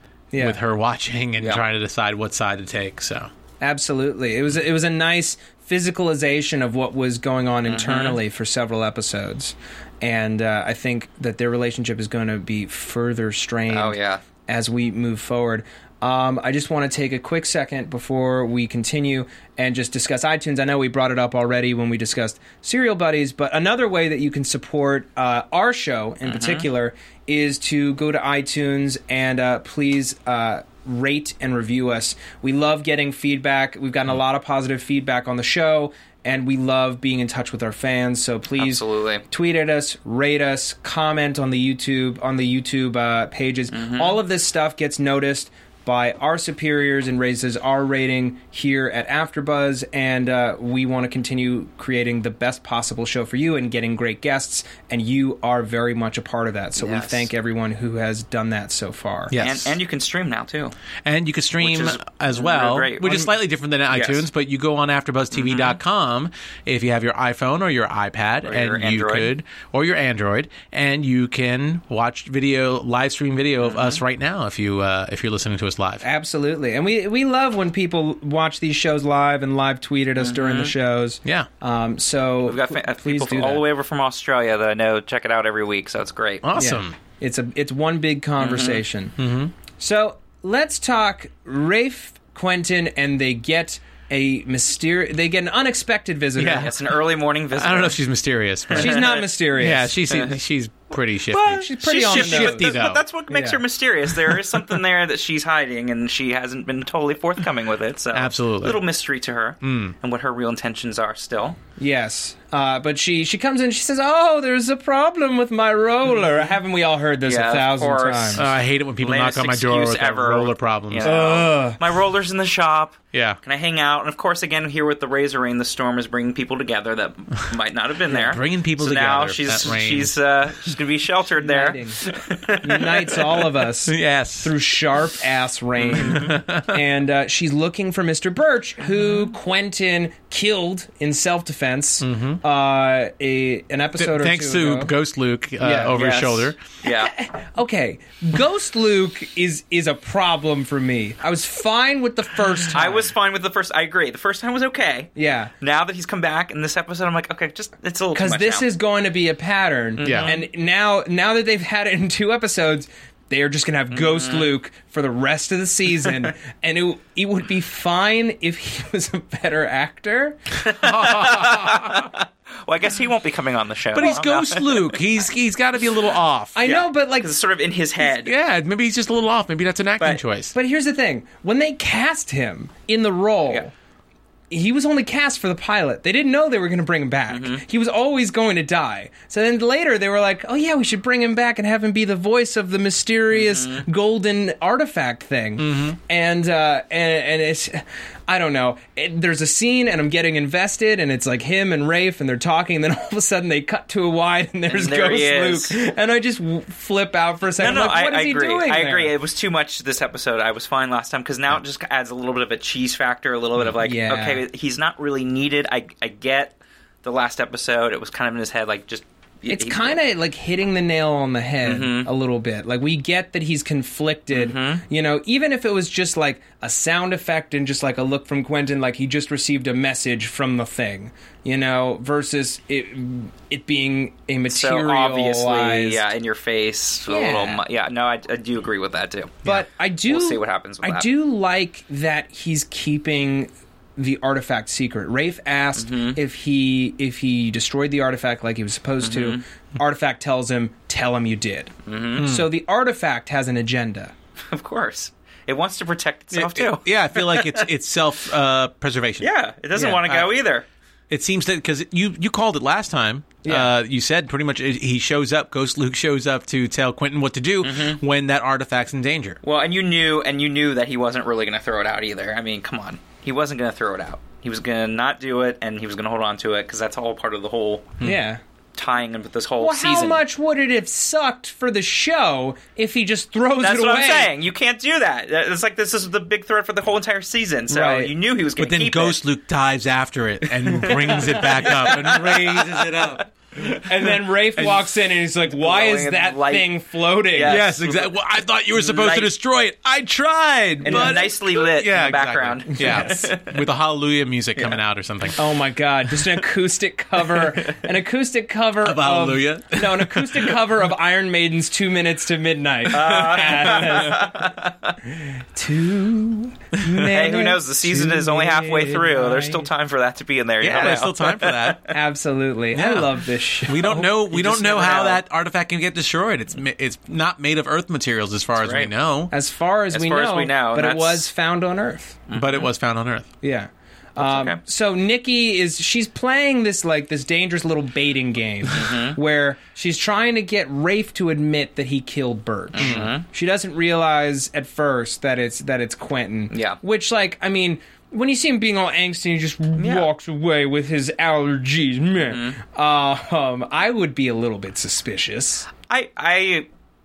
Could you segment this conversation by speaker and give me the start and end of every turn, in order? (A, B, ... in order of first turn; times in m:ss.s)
0:00.3-0:00.6 A
0:00.4-0:03.3 B
0:03.6-0:59.4 A
0:07.7-0:08.2 C
0:13.7-0:14.2 C
0:26.2-0:26.6 C
0:38.6-0:39.2 C
0:43.7-0:44.2 C
0:56.8-0:57.3 C
0:59.3-0:59.8 B
0:59.4-1:00.8 C
1:01.0-1:16.0 B
1:01.6-1:03.3 C
1:03.9-1:04.2 C
1:05.3-1:05.8 C
1:08.4-1:09.3 C
1:13.6-1:14.0 C
1:16.0-1:23.6 A
1:20.2-1:20.7 C
1:22.4-1:26.5 C
1:26.4-1:27.0 B
1:26.6-1:29.2 A
1:28.4-1:28.8 C
1:29.2-1:29.5 B
1:29.8-1:36.7 A
1:36.4-1:36.8 B
1:36.5-1:38.0 C
1:37.5-1:43.0 B
1:38.7-1:39.2 C
1:38.8-1:40.0 A
1:41.3-1:51.6 C
1:41.5-1:42.8 A
1:43.3-1:43.6 A
1:48.1-1:48.8 B
1:49.6-1:50.0 B
1:51.8-1:58.5 A
1:57.2-1:58.5 C
1:58.4-2:01.5 B
1:59.0-2:13.5 C
2:01.0-2:01.8 A
2:03.1-2:03.4 B
2:08.1-2:10.1 B
2:11.4-2:12.0 A
2:12.6-2:24.9 A
2:13.9-2:14.5 B
2:15.8-2:16.4 C
2:16.0-2:16.8 B
2:22.0-2:22.4 B
2:24.0-2:26.6 B
2:25.6-2:26.0 A
2:25.9-2:27.1 C
2:26.9-2:33.1 A
2:32.7-2:38.6 C
2:35.2-2:35.5 A
2:38.1-2:50.4 A
2:40.0-2:40.4 C
2:40.0-2:40.3 B
2:43.9-2:44.5 C
2:50.6-2:55.0 C
2:50.8-2:52.1 B
2:53.9-2:56.6 B
2:56.6-2:57.4 A
2:56.6-2:58.3 C
2:58.2-3:00.5 B
3:00.5-3:03.7 A
3:04.5-3:29.1 A
3:07.3-3:07.6 C
3:13.3-3:13.9 C
3:15.6-3:16.0 B
3:24.7-3:25.7 C
3:27.6-3:40.0 C
3:33.8-3:34.4 A
3:39.5-3:56.0 A
3:41.6-3:42.1 C
3:44.3-3:44.8 C
3:54.5-3:59.5 C
3:57.1-3:57.6 A
3:59.4-4:14.1 A
4:00.1-4:01.1 C
4:05.8-4:06.2 C
4:09.0-4:09.4 C
4:11.9-4:12.3 C
4:12.2-4:12.5 B
4:14.5-4:17.6 C
4:16.3-4:19.3 B
4:19.2-4:20.6 C
4:19.8-4:20.3 A
4:21.1-4:29.4 B
4:23.4-4:23.8 A
4:27.6-4:28.0 C
4:29.4-4:38.0 C
4:38.0-4:38.4 A
4:38.8-4:40.2 C
4:39.6-4:44.3 A
4:43.6-4:49.2 C
4:47.7-4:48.1 A
4:48.6-4:53.6 B
4:50.7-4:53.2 C
4:51.1-4:52.1 A
4:53.8-4:57.6 A
4:54.6-4:54.8 B
4:55.5-4:56.7 C
4:57.3-4:58.1 C
4:57.4-5:05.5 B
4:58.8-4:59.3 C
5:00.8-5:03.6 C
5:00.9-5:01.3 A
5:02.8-5:03.3 A
5:05.4-5:14.5 A
5:08.8-5:10.6 B
5:12.9-5:15.0 C
5:15.1-5:19.7 A
5:16.8-5:17.1 B
5:17.1-5:21.9 C
5:20.6-5:21.8 B
5:21.9-5:24.5 A
5:22.7-5:29.3 B
5:24.3-5:25.2 C
5:28.6-5:28.9 C
5:29.3-5:32.2 A
5:29.9-5:31.3 C
5:32.3-5:32.7 C
5:32.3-5:33.3 B
5:33.4-5:55.7 A
5:34.2-5:34.6 C
5:38.7-5:39.2 C
5:42.7-5:43.3 C
5:42.8-5:43.1 B
5:46.5-5:46.8 C
5:49.8-5:50.1 C
5:52.3-5:52.6 C
5:55.9-5:56.7 C